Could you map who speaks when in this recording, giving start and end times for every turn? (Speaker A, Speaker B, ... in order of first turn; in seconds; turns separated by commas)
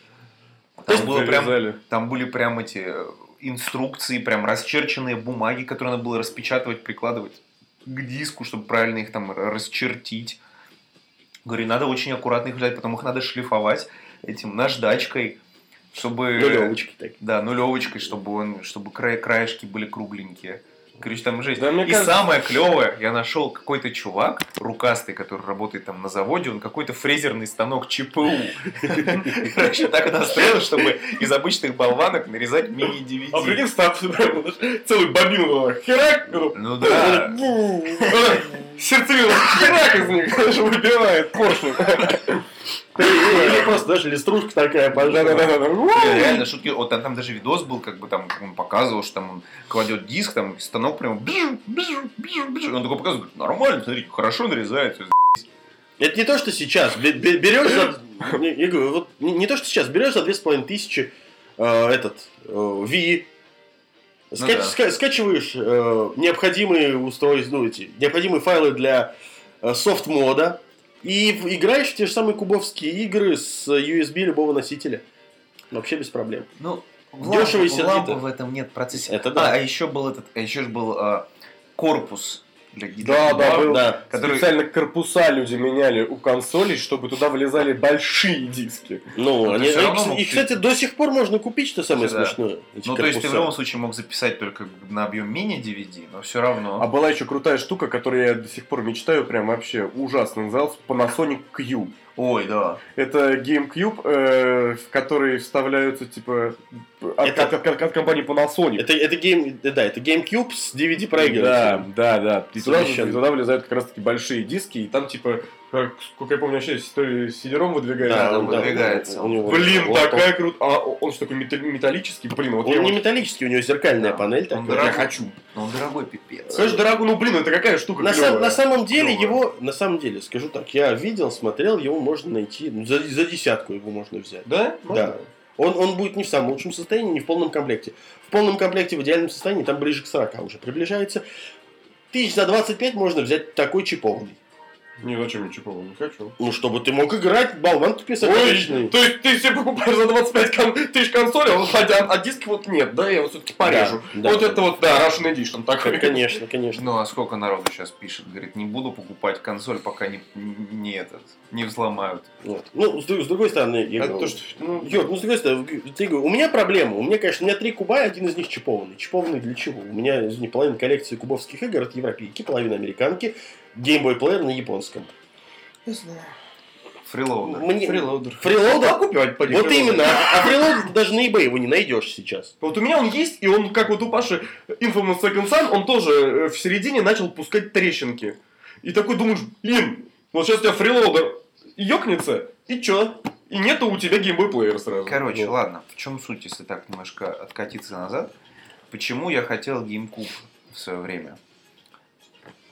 Speaker A: 0.8-10.4, Speaker B: 0.9-1.8, Speaker A: 11.4-15.4, Speaker A: 15.9-33.6, Speaker C: 16.4-17.2, Speaker B: 21.6-22.2, Speaker B: 33.3-37.3, Speaker A: 36.5-37.5, Speaker C: 36.8-38.4, Speaker B: 38.1-42.5, Speaker C: 43.0-45.6, Speaker B: 43.0-43.8, Speaker B: 45.0-46.5, Speaker A: 45.9-55.5, Speaker C: 56.0-63.3, Speaker C: 64.3-69.1, Speaker A: 64.4-64.8, Speaker C: 69.6-75.0, Speaker C: 75.7-76.5, Speaker A: 76.6-84.5, Speaker C: 77.2-78.2, Speaker C: 79.0-79.6, Speaker B: 83.0-89.1, Speaker C: 83.6-84.0, Speaker C: 89.2-93.5, Speaker A: 89.4-90.6, Speaker A: 91.9-96.9, Speaker B: 96.8-102.0, Speaker A: 102.2-102.8, Speaker B: 103.0-108.9, Speaker C: 107.2-107.5, Speaker C: 108.8-111.9, Speaker B: 111.1-118.8, Speaker C: 112.6-113.2, Speaker C: 118.0-120.3, Speaker A: 118.1-119.8, Speaker B: 119.5-123.0, Speaker C: 122.6-124.9, Speaker A: 124.0-126.8, Speaker B: 124.7-125.3, Speaker C: 126.5-126.8, Speaker B: 126.5-128.6, Speaker C: 128.0-141.2, Speaker A: 129.0-129.4, Speaker B: 134.4-135.3, Speaker C: 142.1-144.4, Speaker B: 145.0-146.3, Speaker C: 146.4-148.9, Speaker B: 148.2-156.4, Speaker C: 153.6-154.9, Speaker C: 155.8-156.8, Speaker A: 156.7-162.3, Speaker C: 162.4-175.2, Speaker B: 164.0-165.1, Speaker A: 177.1-178.8, Speaker C: 177.4-182.5, Speaker B: 178.1-180.7, Speaker B: 182.6-195.3, Speaker A: 195.1-198.3, Speaker A: 198.9-201.4